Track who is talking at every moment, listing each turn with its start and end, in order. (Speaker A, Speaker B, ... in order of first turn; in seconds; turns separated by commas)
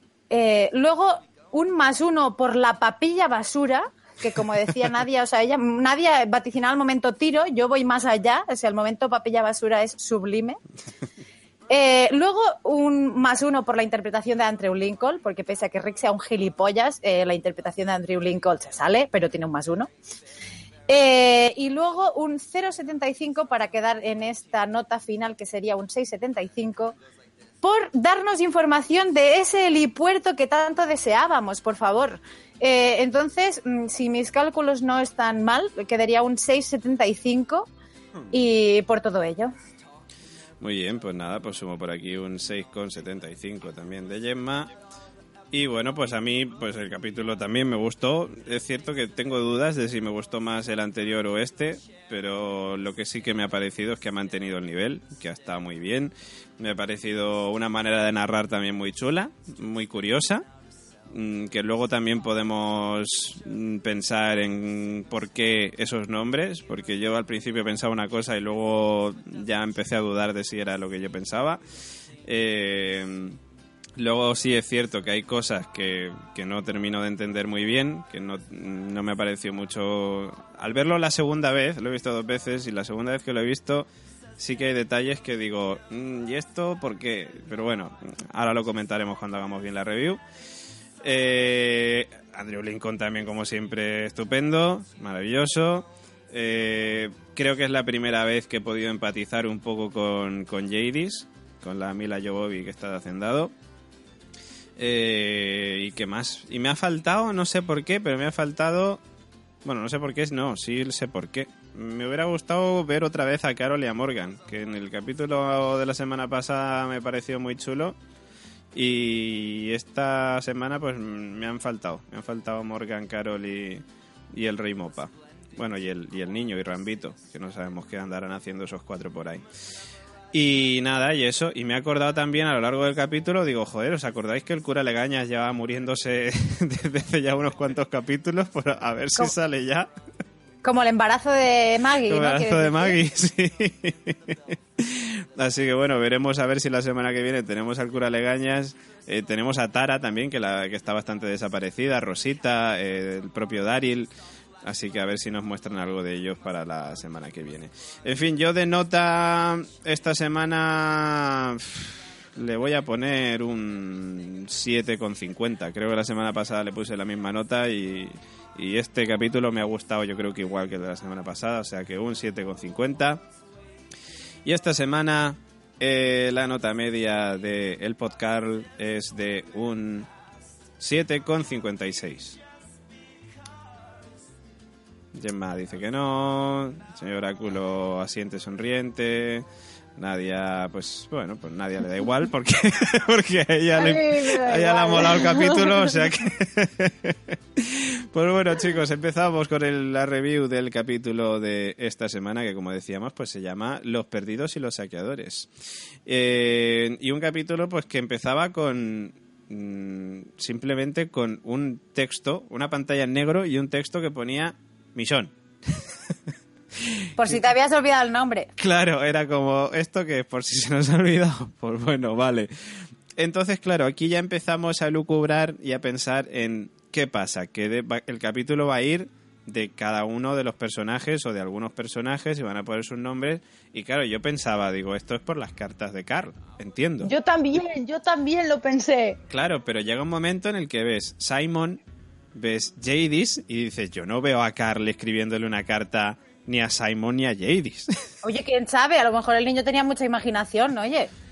Speaker A: 0.3-10.6, Speaker A: 11.7-19.9, Speaker A: 20.9-26.9, Speaker A: 27.6-37.7, Speaker A: 38.3-39.5, Speaker B: 40.6-44.7, Speaker B: 45.5-60.4, Speaker B: 61.1-71.6, Speaker B: 72.2-73.4, Speaker B: 74.0-90.2, Speaker B: 91.0-103.5, Speaker B: 104.8-109.0, Speaker B: 109.6-118.0, Speaker B: 118.7-129.4, Speaker B: 130.3-139.9, Speaker A: 140.6-143.0, Speaker B: 142.1-154.1, Speaker B: 154.6-173.2, Speaker B: 174.4-180.1, Speaker B: 180.8-182.4, Speaker B: 185.1-189.4, Speaker B: 190.0-205.5, Speaker C: 193.8-195.9, Speaker B: 206.1-216.1, Speaker B: 216.7-217.4, Speaker A: 217.2-218.5, Speaker B: 218.6-237.1, Speaker C: 237.0-239.2, Speaker B: 239.3-241.8, Speaker B: 242.3-248.1, Speaker A: 248.2-251.1